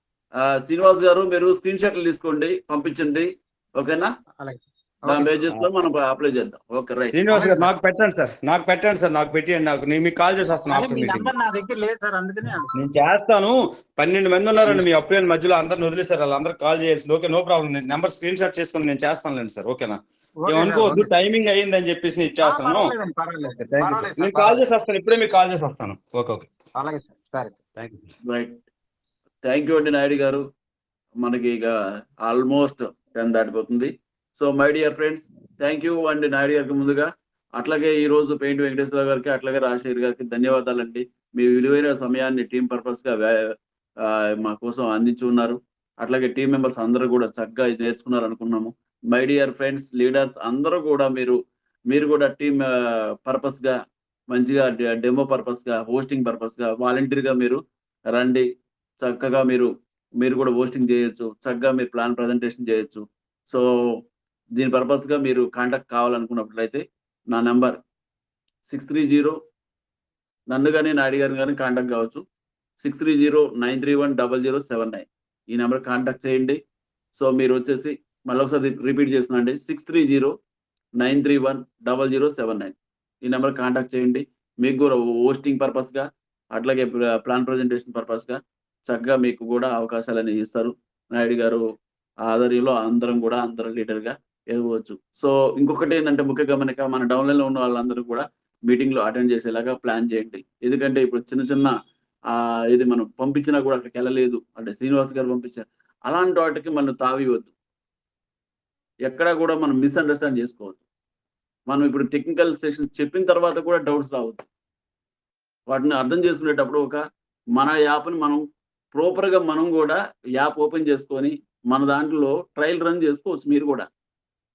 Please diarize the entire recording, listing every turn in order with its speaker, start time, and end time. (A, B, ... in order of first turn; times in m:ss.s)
0:00.4-0:04.1 A
0:04.4-0:05.4 B
0:05.1-0:07.5 A
0:07.1-0:11.3 C
0:07.3-0:07.6 B
0:10.7-0:12.7 B
0:12.8-0:22.9 C
0:20.4-0:21.1 B
0:22.4-0:24.6 B
0:23.6-0:26.5 C
0:26.8-0:27.6 B
0:27.8-0:28.0 C
0:28.2-0:28.6 A
0:29.4-0:30.4 A
0:31.2-0:43.5 A
0:44.0-0:51.4 A
0:51.9-0:52.7 A
0:53.2-0:53.7 A
0:54.3-0:57.6 A
0:58.1-0:58.4 A
0:59.0-1:03.6 A
1:04.6-1:07.8 A
1:08.7-1:09.4 A
1:10.5-1:12.2 A
1:12.8-1:16.6 A
1:17.1-1:20.3 A
1:21.0-1:31.6 A
1:32.3-1:41.7 A
1:42.3-1:47.5 A
1:49.1-1:50.8 A
1:51.7-1:54.4 A
1:55.7-1:57.0 A
1:57.5-1:58.4 A
1:58.9-2:03.9 A